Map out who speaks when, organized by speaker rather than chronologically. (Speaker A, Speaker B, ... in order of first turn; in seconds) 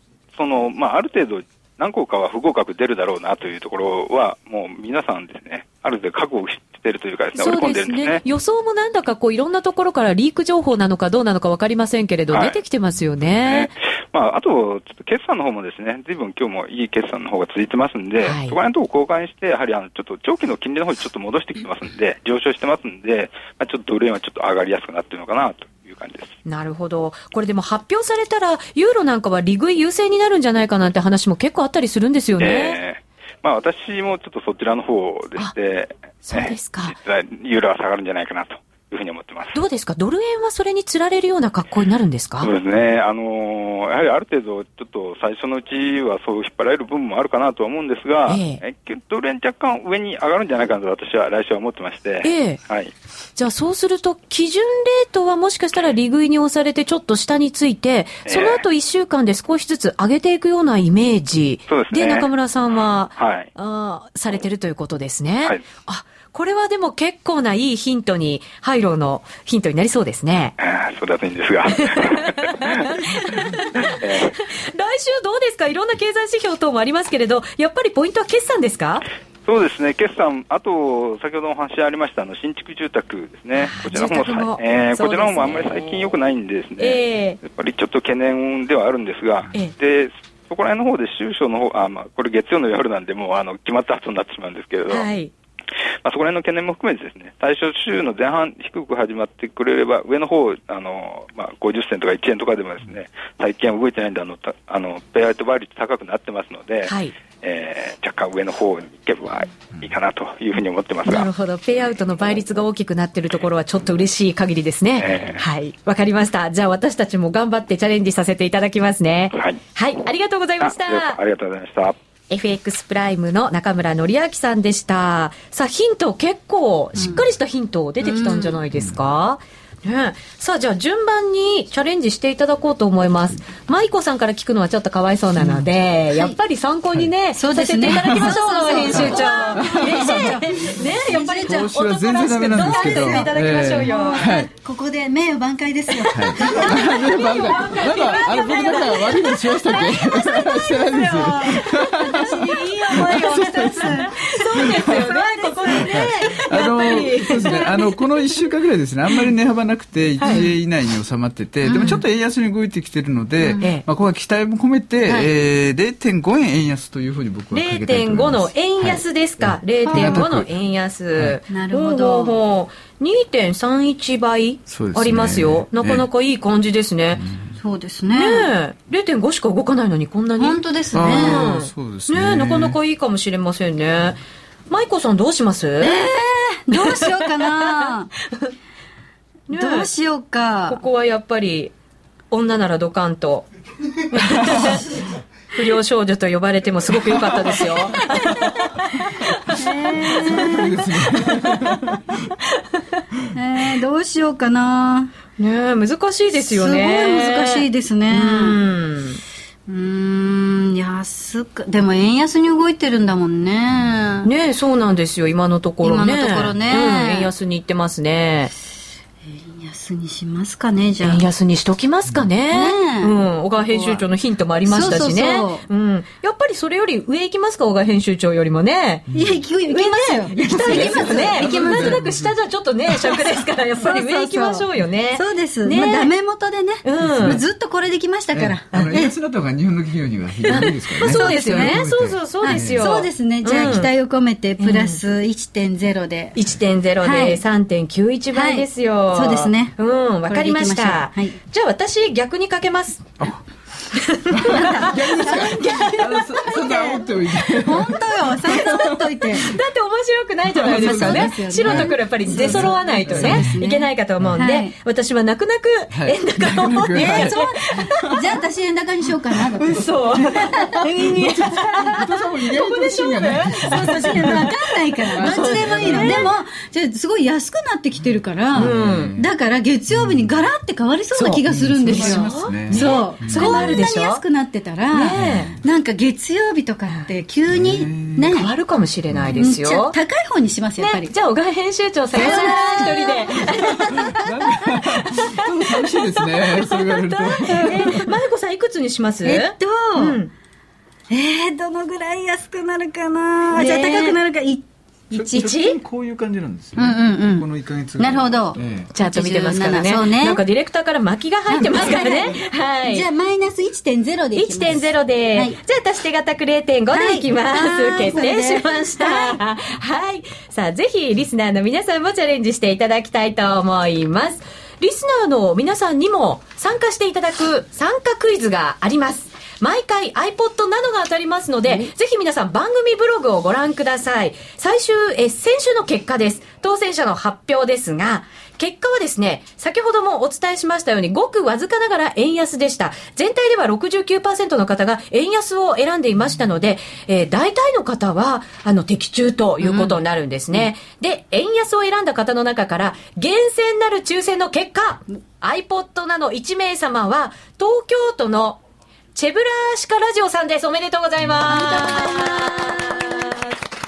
Speaker A: 0.3-8.2, 12.3-12.6, 13.4-26.4, 32.4-39.6, 42.4-52.9, 58.2-58.6, 61.7-62.3, 63.2-63.5, 70.6-73.0, 73.7-74.4, 79.4-95.1, 96.0-111.3, 115.0-115.4, 119.3-119.6, 120.6-122.0
Speaker B: 7.4-13.7, 18.2-18.6, 26.4-32.8, 36.2-36.9, 39.5-42.5, 48.3-48.6, 52.2-52.6, 53.4-70.5, 71.7-79.0, 83.6-86.1, 86.8-87.4, 94.9-95.3, 106.8-107.1, 111.0-121.2, 122.3-144.3, 146.4-149.9, 151.0-158.0, 160.2-160.4, 167.5-177.2, 178.1-186.0, 186.8-187.1, 189.5-189.9, 190.7-191.7, 192.3-193.5, 194.1-194.8, 195.5-198.7, 205.4-209.2, 214.2-218.5, 221.0-229.1, 229.7-236.1, 236.8-237.4, 240.5-243.9, 244.6-245.0, 246.3-253.1, 253.9-256.2, 259.3-268.0, 269.6-274.6, 275.1-276.3, 278.6-279.1, 281.1-284.2, 284.9-285.5, 288.3-290.0, 290.8-294.2, 295.0-295.4, 296.4-300.3, 303.5-304.2, 305.4-305.8, 308.9-313.1, 314.3-358.6, 359.1-363.5
Speaker C: 128.0-128.6, 137.3-141.7, 142.5-149.2, 149.8-157.3, 161.6-162.0, 163.4-163.7, 169.9-170.2, 171.5-172.3, 177.6-178.5, 180.4-181.5, 185.8-188.1, 189.5-190.8, 199.6-200.8, 203.3-205.1, 206.4-208.6, 209.7-214.3, 215.8-217.3, 219.2-221.2, 222.5-224.0, 224.7-225.6, 229.1-232.0, 233.8-239.1, 240.5-241.8, 242.4-246.4, 247.0-247.4, 248.3-249.7, 250.3-251.4, 254.5-255.8, 256.4-259.5, 260.6-264.7, 266.9-271.4, 273.4-288.5, 289.3-291.1, 292.1-294.2, 299.2-300.2, 301.1-305.6, 306.8-310.4, 311.5-315.6, 316.9-319.4, 349.6-349.9, 361.4-363.1
Speaker D: 135.4-135.6, 137.9-138.3, 138.8-140.5, 141.4-144.5, 146.1-155.0, 155.8-170.5, 174.7-176.1, 177.2-177.6, 180.9-182.8, 200.1-202.0, 229.1-229.4, 230.4-232.3, 237.0-237.4, 238.3-243.0, 243.6-243.9, 254.3-259.3, 260.5-263.5, 265.9-268.2, 270.8-274.5, 275.1-276.3, 278.5-279.3, 279.9-280.3, 281.4-283.7, 285.1-285.6, 287.5-288.4, 289.1-289.4, 292.9-298.1, 305.1-308.9